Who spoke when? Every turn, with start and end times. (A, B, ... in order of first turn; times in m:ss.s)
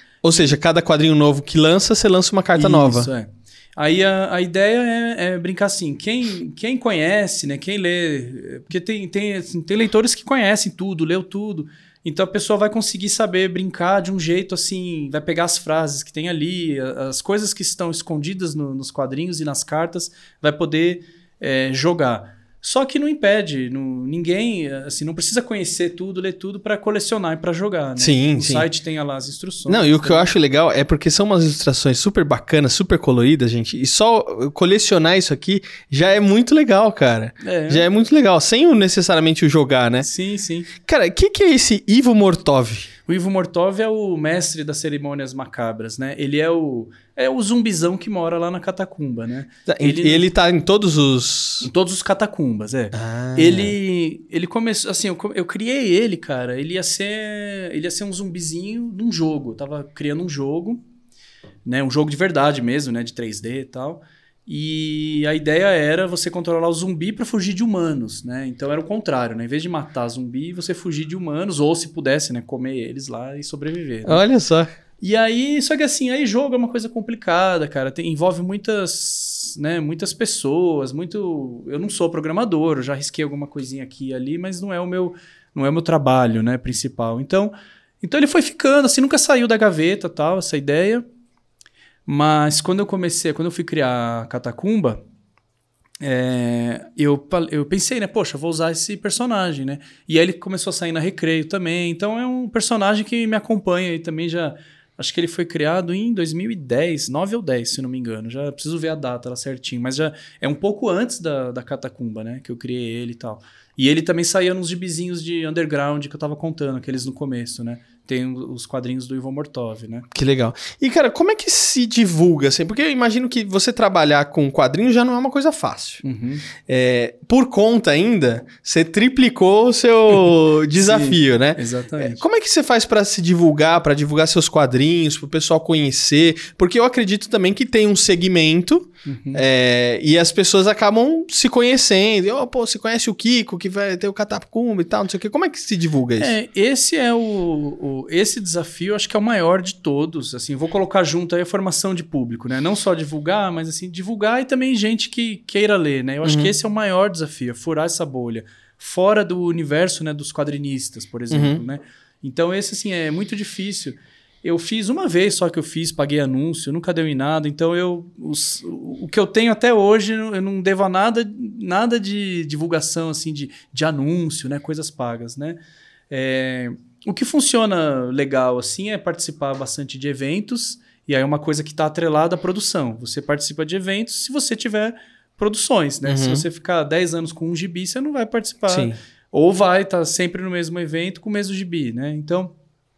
0:00.2-0:03.1 A
0:02.6-0:30.3 B
0:28.0-0:28.7 A
0:29.7-0:40.1 A
0:37.4-0:37.9 B
0:40.0-0:40.7 B
0:40.8-0:42.9 A
0:43.1-0:50.3 B
0:49.7-0:51.7 A
0:51.6-1:00.8 B
0:52.9-0:53.8 A
1:01.7-1:14.2 B
1:14.1-1:14.7 A
1:15.0-1:31.0 B
1:32.1-1:35.0 B
1:36.0-2:00.1 B
2:00.1-2:06.0 A
2:06.0-2:06.5 B
2:06.6-2:26.3 A
2:10.7-2:12.2 B
2:19.1-2:19.4 B
2:26.2-2:55.6 B
2:36.2-2:36.5 A
2:41.3-2:41.6 A
2:56.1-3:12.5 B
3:06.0-3:06.4 A
3:08.7-3:09.0 A